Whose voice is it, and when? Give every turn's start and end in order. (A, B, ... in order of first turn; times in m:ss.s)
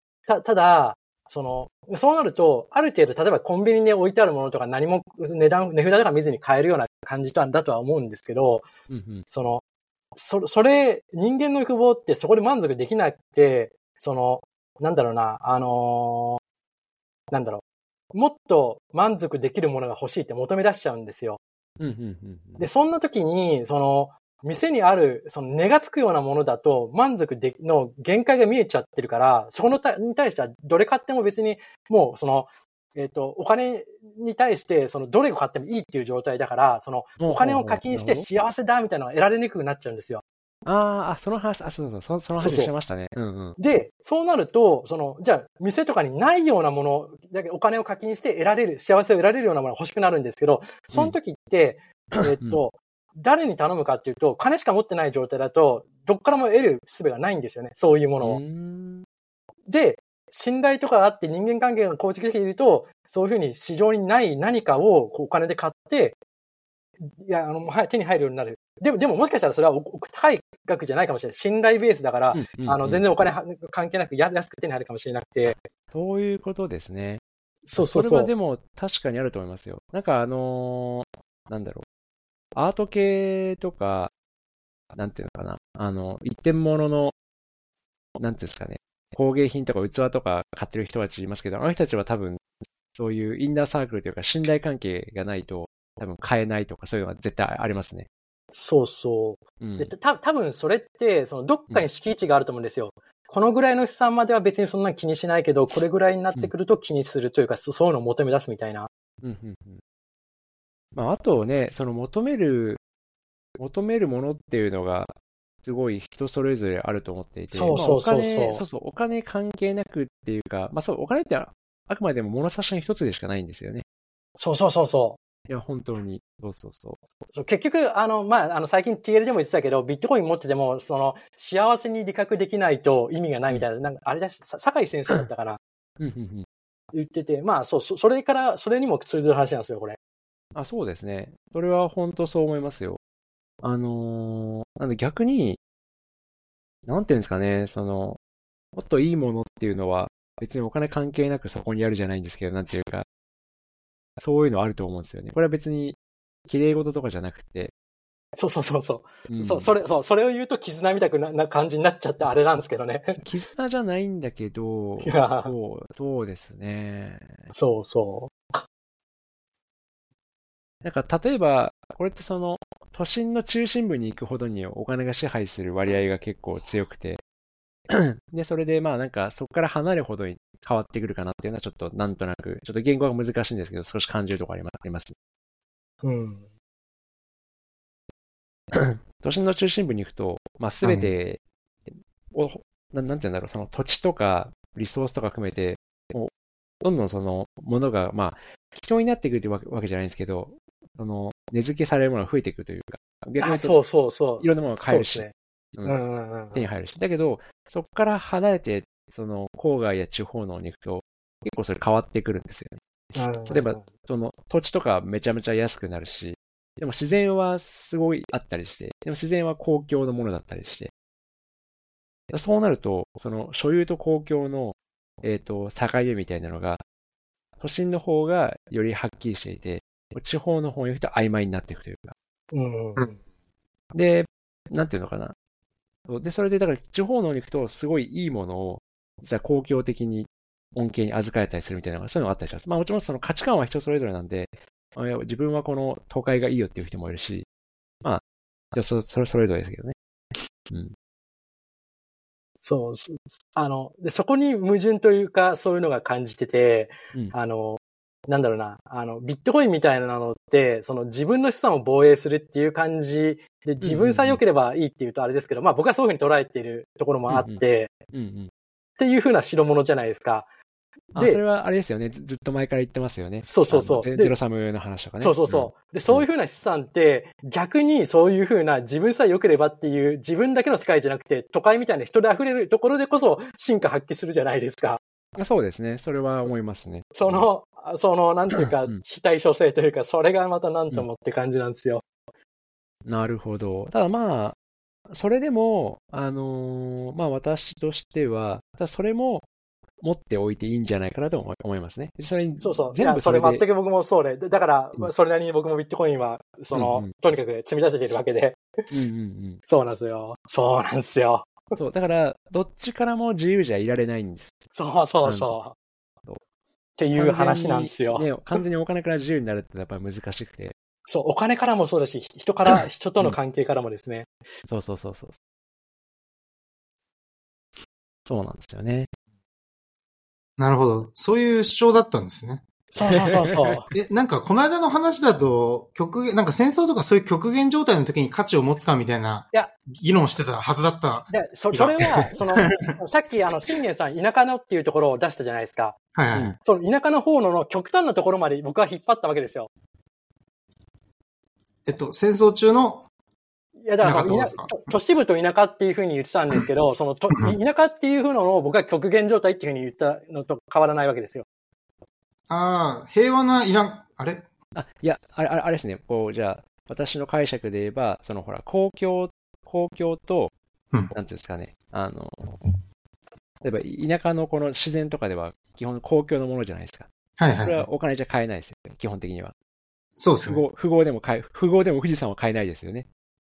0:00.3-0:08.7 A
0:08.9-0:09.2 B
0:09.3-0:09.6 A
0:10.2-0:16.4 A
0:17.3-0:17.6 A
0:18.1-0:21.4 A
0:21.8-0:22.6 B
0:22.6-0:40.2 A
0:37.2-0:38.2 B
0:40.6-0:43.6 B
0:42.4-0:42.7 A
0:43.6-0:58.4 A
0:52.2-0:52.6 B
0:58.2-0:59.0 B
0:59.7-1:06.2 A
1:07.0-1:15.6 A
1:12.3-1:13.0 B
1:15.5-1:17.2 B
1:17.7-1:18.3 A
1:17.7-1:21.8 B
1:22.5-1:24.1 B
1:24.9-1:27.1 B
1:28.2-1:32.4 B
1:32.9-1:38.1 B
1:38.5-1:48.9 A
1:39.6-1:39.9 B
1:49.2-1:49.8 B
1:50.9-1:52.8 B
1:53.6-2:03.8 B
1:57.5-1:58.6 A
2:04.4-2:05.2 A
2:05.5-2:07.1 B
2:07.3-2:15.6 A
2:16.0-2:16.4 B
2:16.9-2:20.0 A
2:20.5-2:23.0 B
2:23.6-2:25.6 B
2:26.8-2:28.2 B
2:28.7-2:33.0 B
2:34.2-2:36.0 B
2:36.5-2:37.7 B
2:38.4-2:43.3 A
2:39.3-2:39.7 B
2:43.2-2:47.5 B
2:45.0-2:45.5 A
2:47.5-2:48.6 A
2:50.8-2:57.2 B
2:57.9-3:05.1 B
3:06.0-3:06.5 A
3:08.7-3:11.4 B
3:10.8-3:11.1 C
3:12.3-3:16.3 B
3:16.8-3:23.7 B
3:23.4-3:25.3 A
3:24.4-3:26.0 B
3:25.8-3:26.7 A
3:26.5-3:32.8 B
3:33.1-3:33.8 A
3:33.5-3:40.9 B
3:42.3-3:46.8 B
3:47.6-3:52.1 B
3:52.5-3:53.2 A
3:53.9-3:55.3 B
3:56.1-4:07.4 B
4:08.7-4:09.9 B
4:10.7-4:10.9 B
4:12.6-4:27.9 A
4:23.8-4:24.4 B
4:27.3-4:28.5 B
4:29.0-4:30.5 A
4:31.1-4:36.2 B
4:31.2-4:31.4 A
4:33.4-4:34.3 A
4:35.2-4:45.0 A
4:45.4-4:47.4 B
4:47.1-4:52.0 A
4:53.0-4:54.6 B
4:55.1-4:59.4 B
5:00.0-5:03.6 B
5:02.6-5:08.6 A
5:06.7-5:07.1 B
5:08.9-5:09.6 B
5:09.7-5:11.8 A
5:11.8-5:14.6 B
5:14.7-5:15.7 A
5:15.2-5:15.5 B
5:17.0-5:18.3 A
5:17.1-5:20.7 B
5:21.1-5:24.3 A
5:24.7-5:25.4 B
5:28.3-5:29.1 B
5:30.6-5:32.6 C
5:32.9-5:33.9 A
5:33.0-5:33.8 B
5:33.9-5:42.9 C
5:41.3-5:46.0 A
5:46.1-5:46.6 C
5:46.6-5:49.7 A
5:51.8-5:53.0 C
5:53.8-6:01.4 A
5:54.0-5:54.7 C
6:02.5-6:04.5 C
6:04.7-6:10.5 B
6:11.1-6:12.7 B
6:13.6-6:17.1 B
6:17.4-6:17.9 C
6:17.6-6:19.5 B
6:20.2-6:20.6 C
6:20.4-6:23.1 B